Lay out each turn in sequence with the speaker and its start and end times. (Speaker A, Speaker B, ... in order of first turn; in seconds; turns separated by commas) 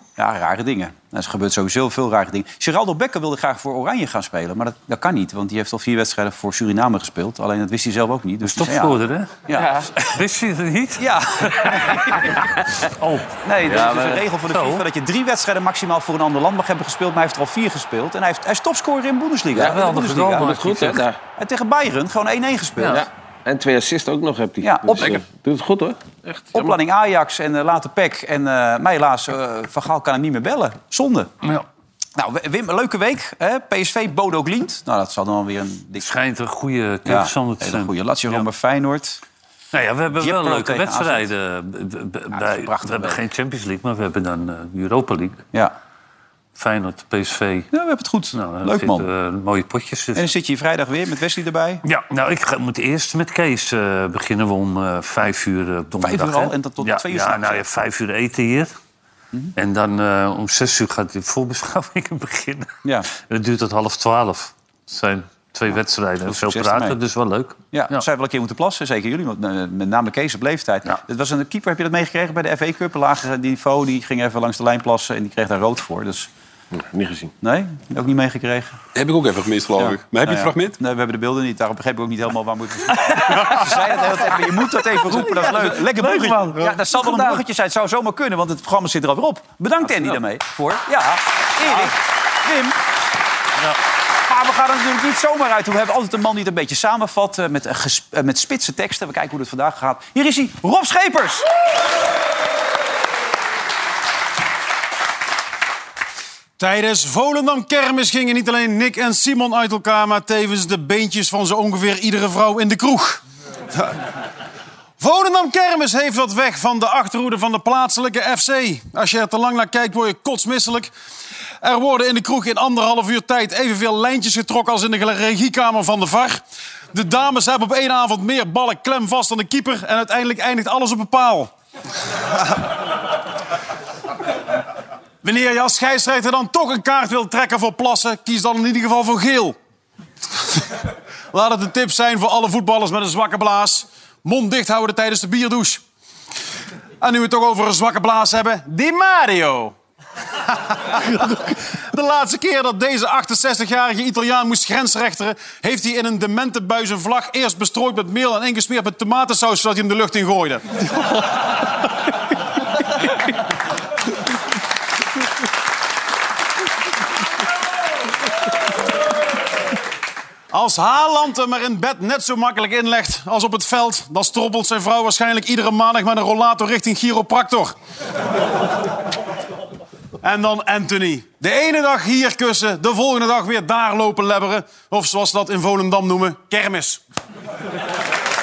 Speaker A: 0.2-9.7, Speaker B: 8.4-9.4, Speaker C: 9.5-9.9, Speaker B: 9.9-13.4, Speaker A: 11.0-12.4, Speaker A: 13.4-20.5, Speaker C: 13.7-14.2, Speaker B: 14.5-14.8, Speaker B: 19.5-21.1, Speaker C: 19.5-21.2, Speaker A: 21.4-23.0, Speaker B: 22.8-23.0, Speaker C: 22.9-26.8, Speaker A: 24.6-25.2, Speaker A: 26.5-31.3, Speaker A: 32.1-36.1, Speaker B: 36.0-38.5, Speaker A: 37.0-39.2, Speaker B: 39.7-45.5, Speaker A: 40.2-41.3, Speaker A: 42.3-43.2, Speaker B: 46.5-47.7, Speaker A: 47.7-49.1, Speaker B: 48.3-50.3, Speaker A: 50.1-51.8, Speaker B: 51.8-58.7, Speaker A: 56.0-57.6, Speaker B: 59.5-68.0, Speaker A: 62.8-63.1, Speaker A: 66.2-67.0, Speaker A: 67.7-76.3, Speaker C: 76.7-77.3, Speaker A: 77.4-78.8, Speaker D: 78.9-80.8, Speaker A: 79.8-92.8, Speaker C: 83.1-83.8, Speaker C: 85.1-87.4, Speaker D: 86.0-86.5, Speaker A: 94.3-101.5, Speaker E: 106.6-113.2, Speaker E: 115.0-120.9, Speaker E: 121.6-126.4, Speaker E: 126.9-131.5, Speaker E: 135.2-139.5, Speaker E: 141.3-145.8, Speaker E: 147.0-149.8, Speaker E: 150.7-160.6, Speaker E: 170.5-177.8, Speaker E: 180.2-187.0